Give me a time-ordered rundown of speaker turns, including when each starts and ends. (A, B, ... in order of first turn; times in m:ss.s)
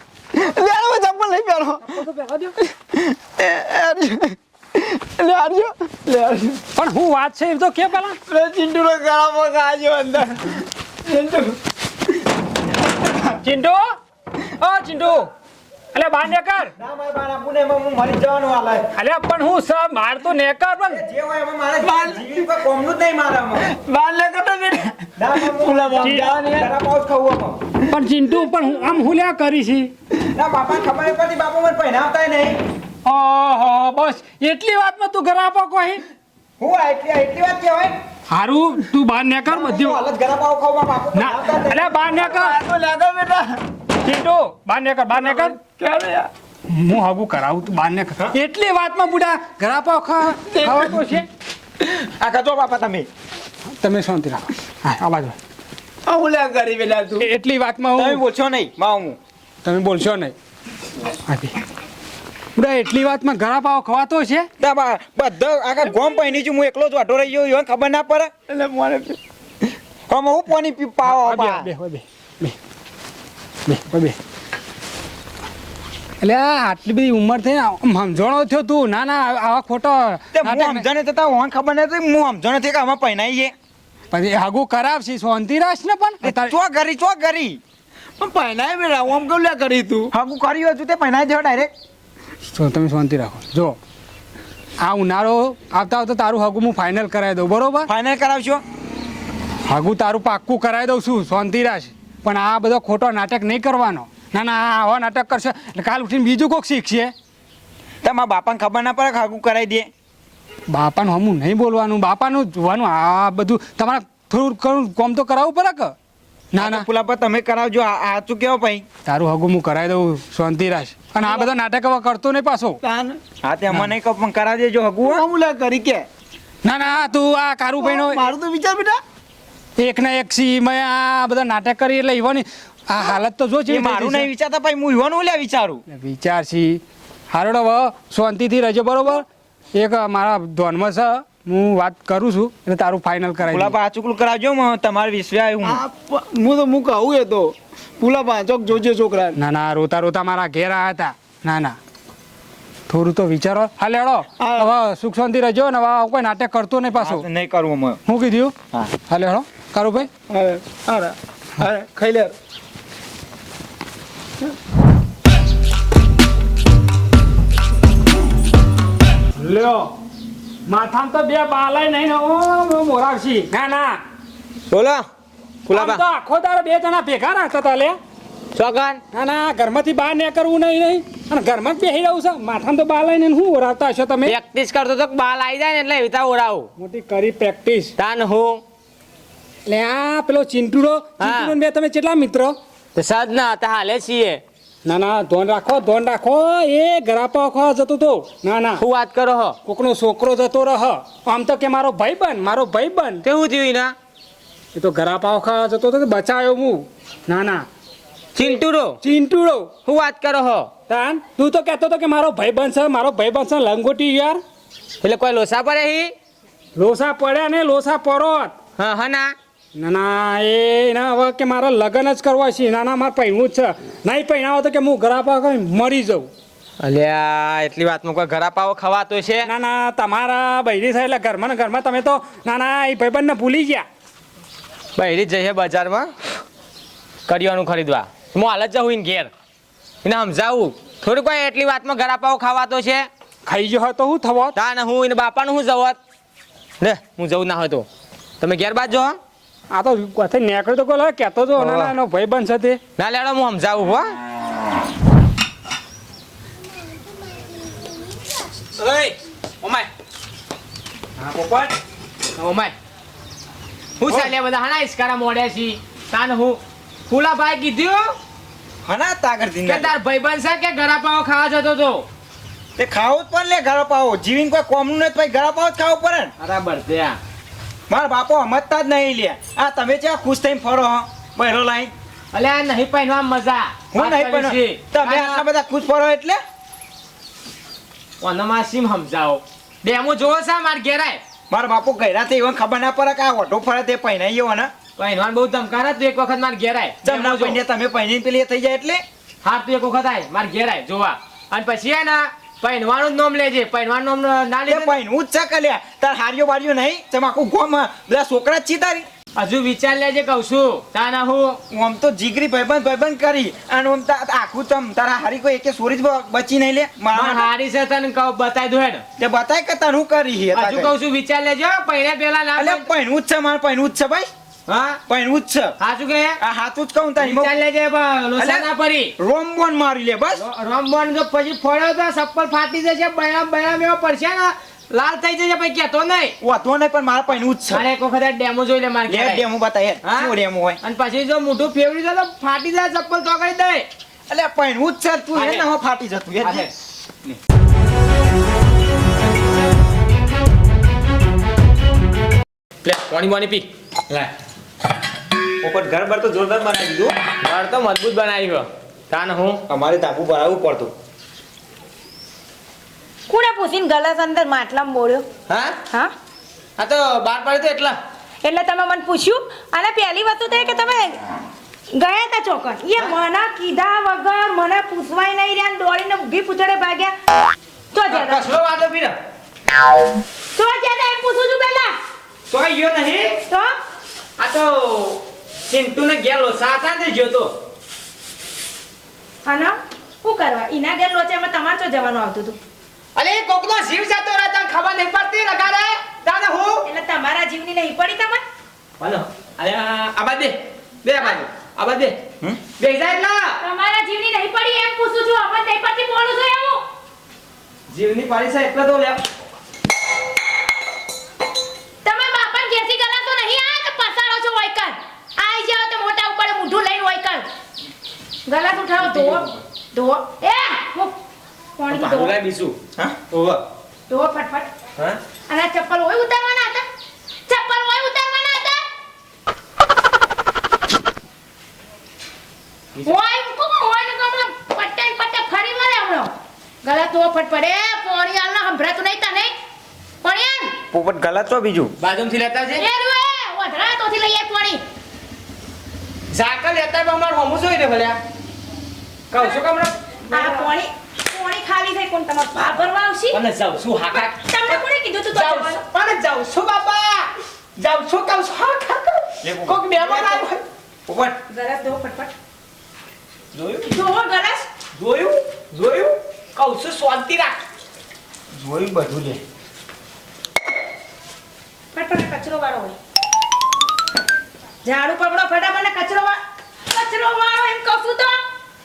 0:00.3-0:02.0 A
0:01.8-0:02.6 B
0:02.7-0:06.6 A
0:06.8-0:08.2 B
0:08.3-0:11.6 A
0:13.4-0:13.8 B
0:14.6-0:15.3 B
0:15.9-0:16.7 B
0:16.8-0:18.9 C
0:19.0-0:21.0 B
0:20.9-0:23.7 C
0:21.8-0:22.6 A
0:23.6-0:26.7 A
0:25.2-0:27.6 C
0:26.0-0:26.4 B
0:27.9-0:29.9 B
0:30.2-0:32.6 C
0:33.0-0:36.0 B
0:36.6-0:37.9 C
0:38.3-0:40.0 B
0:39.5-0:41.9 C
0:41.1-0:42.6 B
0:42.0-0:43.6 A
0:44.0-0:45.6 B
0:45.1-0:46.3 A
0:46.7-0:51.3 B
0:50.4-0:51.1 A
0:51.8-0:53.1 C
0:53.8-0:55.4 B
0:56.0-0:57.3 A
0:57.2-0:58.2 B
0:58.0-0:59.2 C
0:59.6-1:00.4 B
1:01.3-1:01.6 B
1:02.6-1:04.5 B
1:04.6-1:08.4 C
1:08.5-1:09.2 A
1:10.1-1:11.7 C
1:11.0-1:12.6 B
1:13.7-1:14.2 B
1:16.2-1:20.9 B
1:20.3-1:23.5 C
1:24.1-1:26.5 B
1:26.2-1:27.6 C
1:28.2-1:30.1 A
1:30.1-1:31.7 C
1:32.5-1:33.8 B
1:34.8-1:37.9 B
1:37.9-1:38.6 C
1:39.7-1:47.1 B
1:48.0-1:49.9 C
1:50.7-1:55.9 B
1:56.5-1:56.9 B
1:56.6-1:58.9 C
1:59.1-2:02.8 B
2:02.8-2:03.2 A
2:03.4-2:05.2 C
2:05.0-2:06.1 A
2:06.6-2:08.2 B
2:07.8-2:09.0 A
2:09.8-2:14.3 B
2:13.7-2:15.8 C
2:15.9-2:23.8 B
2:23.4-2:25.8 C
2:25.6-2:29.4 A
2:29.4-2:31.8 B
2:32.9-2:37.3 B
2:34.4-2:34.7 A
2:37.0-2:38.0 C
2:38.1-2:38.6 B
2:39.1-2:40.1 B
2:40.3-2:42.3 A
2:49.4-2:49.9 B
2:50.7-2:54.0 B
2:54.7-2:55.0 D
2:55.7-2:56.0 D
2:55.7-2:58.0 B
2:58.6-2:59.0 D
2:59.1-3:04.4 B
3:04.2-3:06.7 D
3:06.8-3:07.9 B
3:08.0-3:08.6 D
3:09.7-3:12.6 B
3:11.2-3:11.5 D
3:13.0-3:14.4 D
3:14.8-3:18.8 B
3:18.8-3:19.6 D
3:19.6-3:23.2 B
3:23.2-3:24.0 D
3:24.8-3:27.6 B
3:28.4-3:29.0 D
3:29.0-3:29.7 B
3:29.9-3:30.7 D
3:30.9-3:34.4 B
3:35.0-3:36.1 D
3:36.8-3:38.6 B
3:38.8-3:39.4 D
3:39.8-3:46.3 B
3:46.8-3:49.5 D
3:49.4-3:53.8 B
3:55.0-3:56.1 D
3:57.3-3:59.3 D
4:00.0-4:03.1 D
4:03.5-4:04.5 B
4:04.6-4:06.0 D
4:06.8-4:07.9 D
4:08.4-4:09.2 D
4:09.7-4:12.8 B
4:11.6-4:11.9 D
4:13.0-4:14.1 D
4:18.8-4:19.9 D
4:21.2-4:21.7 C
4:22.4-4:22.7 D
4:24.0-4:28.2 D
4:24.1-4:24.3 C
4:28.8-4:30.0 C
4:29.6-4:32.1 D
4:32.8-4:36.3 C
4:36.4-4:37.2 D
4:37.9-4:41.9 C
4:42.3-4:45.4 D
4:43.9-4:46.4 C
4:48.2-4:51.2 D
4:51.5-4:54.7 C
4:55.0-4:57.6 D
4:57.0-4:59.0 C
4:59.4-5:05.0 D
5:04.7-5:09.1 C
5:09.4-5:11.6 D
5:11.7-5:17.5 C
5:17.1-5:19.0 D
5:19.2-5:20.9 C
5:20.5-5:22.9 D
5:22.6-5:24.3 C
5:24.7-5:25.0 D
5:25.1-5:25.8 C
5:25.8-5:26.4 D
5:26.4-5:27.5 C
5:27.2-5:29.1 D
5:28.4-5:30.4 C
5:30.3-5:36.4 D
5:36.4-5:37.9 C
5:37.7-5:39.5 D
5:39.1-5:40.8 C
5:40.0-5:43.9 D
5:44.3-5:46.7 C
5:45.3-5:45.7 D
5:46.4-5:46.7 D
5:52.8-5:54.3 D
5:55.6-5:57.2 C
5:57.4-5:59.6 D
5:59.7-6:00.9 C
6:03.3-6:05.3 E
6:05.5-6:05.8 D
6:06.8-6:08.0 D
6:08.4-6:11.2 E
6:12.0-6:17.1 E
6:17.9-6:18.4 E
6:18.1-6:19.2 D
6:20.5-6:22.0 E
6:22.5-6:23.4 D
6:23.5-6:23.7 E
6:24.4-6:27.5 D
6:29.4-6:32.6 E
6:33.2-6:36.9 D
6:36.8-6:38.4 E
6:39.0-6:42.2 D
6:42.8-6:43.6 D
6:43.6-6:46.8 E
6:47.9-6:49.2 D
6:52.0-6:57.4 E
6:58.5-7:01.1 E
6:59.0-6:59.4 D
7:01.8-7:02.4 E
7:01.9-7:02.8 D
7:03.3-7:03.6 D
7:04.1-7:04.7 E
7:05.5-7:06.9 E
7:07.5-7:08.8 E
7:13.0-7:16.3 E
7:16.8-7:19.5 E
7:20.2-7:20.8 E
7:20.9-7:21.9 C
7:22.0-7:22.9 D
7:22.7-7:24.8 E
7:26.3-7:28.2 D
7:29.3-7:30.7 D
7:29.4-7:29.6 E
7:30.3-7:33.4 E
7:33.3-7:34.8 D
7:34.1-7:35.8 E
7:35.3-7:40.6 D
7:39.4-7:40.4 C
7:40.0-7:40.5 E
7:41.1-7:41.4 C
7:41.5-7:42.3 E
7:43.5-7:44.0 D
7:43.9-7:44.7 E
7:45.0-7:47.6 D
7:48.6-7:49.4 C
7:51.9-7:53.0 E
7:54.8-7:56.4 E
7:56.9-7:58.4 E